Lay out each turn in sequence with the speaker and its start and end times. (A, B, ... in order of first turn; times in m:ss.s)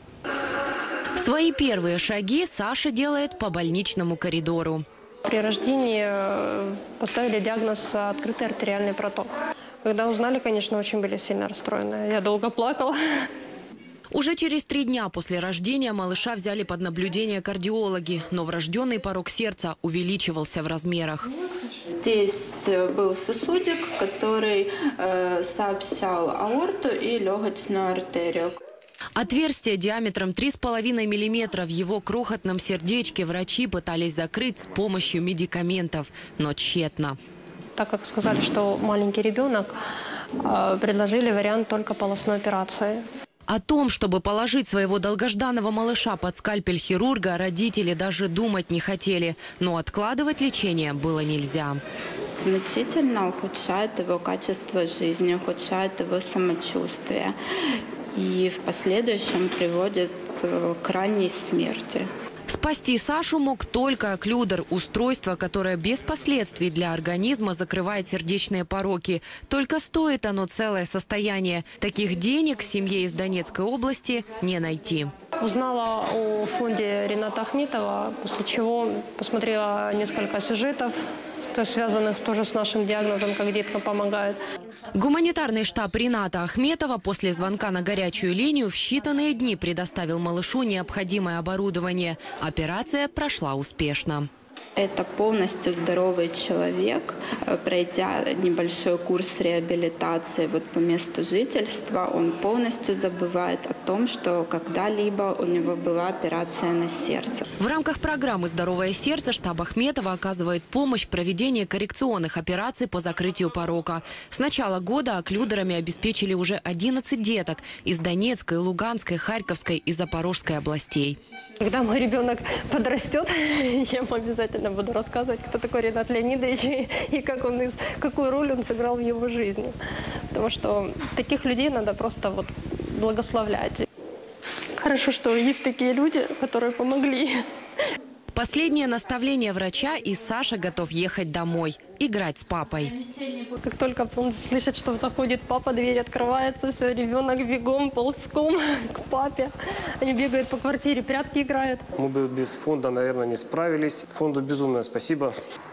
0:01.2-0:04.8 A
0:05.3-0:09.3 B
0:09.8-0:13.3 B
0:14.1-0:21.3 A
0:22.0-0:28.6 C
0:29.2-0:37.2 A
0:37.8-0:39.7 B
0:40.4-0:43.0 B
0:43.5-0:51.8 A
0:52.4-0:57.4 C
0:58.1-1:02.1 C
1:02.5-1:15.1 A
1:15.4-1:21.0 B
1:21.5-1:24.4 B
1:24.9-1:34.3 A
1:34.8-1:47.5 C
1:47.6-2:01.2 A
2:01.6-2:09.8 B
2:10.3-2:13.9 B
2:14.8-2:17.4 B
2:18.3-2:23.0 A
2:23.4-2:31.9 B
2:32.0-2:35.3 D